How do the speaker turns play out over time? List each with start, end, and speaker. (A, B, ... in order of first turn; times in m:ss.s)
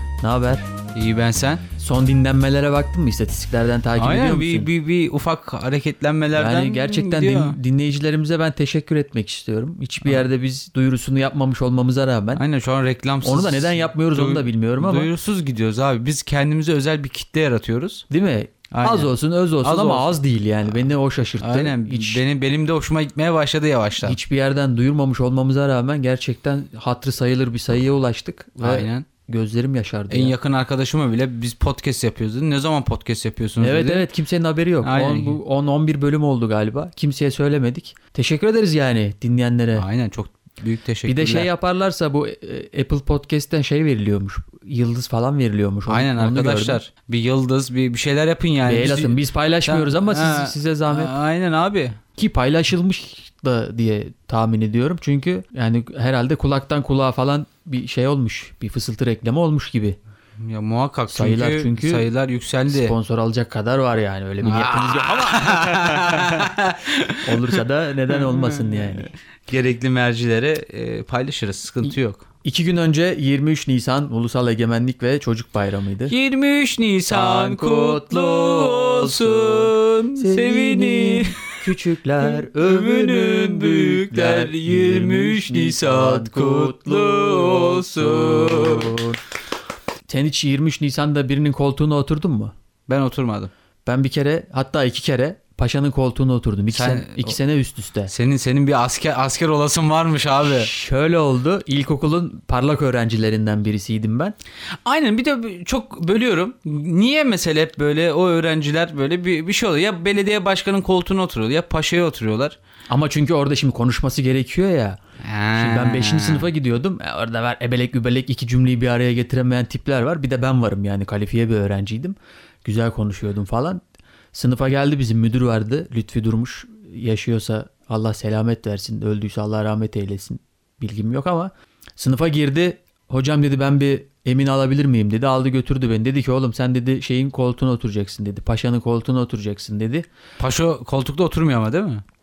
0:00.2-0:00.6 A
0:01.0-0:01.6 B
0:01.8-0:04.7 A
0:04.0-0:07.6 B
0:06.3-0:12.4 A
0:12.4-0:18.0 B
0:13.2-0:15.1 A
0:18.1-0:22.2 A
0:18.7-0:20.1 B
0:21.4-0:24.2 B
0:24.0-0:30.4 A
0:28.6-0:29.1 B
0:30.1-0:34.1 B
0:33.6-0:39.9 A
0:34.8-0:35.4 B
0:39.8-0:41.5 B
0:41.1-0:46.8 A
0:45.9-0:52.0 B
0:48.6-0:51.1 A
0:52.2-1:00.0 A
1:00.4-1:02.9 B
1:01.1-1:02.1 A
1:02.7-1:06.2 A
1:04.4-1:07.6 B
1:07.2-1:09.2 A
1:08.2-1:12.2 B
1:12.4-1:16.1 A
1:16.1-1:21.6 B
1:17.1-1:29.2 A
1:22.3-1:29.0 B
1:30.1-1:32.5 A
1:32.9-1:33.5 B
1:33.9-1:38.1 A
1:36.7-1:37.4 B
1:38.1-1:40.7 B
1:40.4-1:44.4 A
1:44.8-1:52.6 B
1:52.9-1:55.0 A
1:55.2-1:56.5 B
1:55.6-2:03.8 A
2:04.3-2:20.1 A
2:20.4-2:22.0 B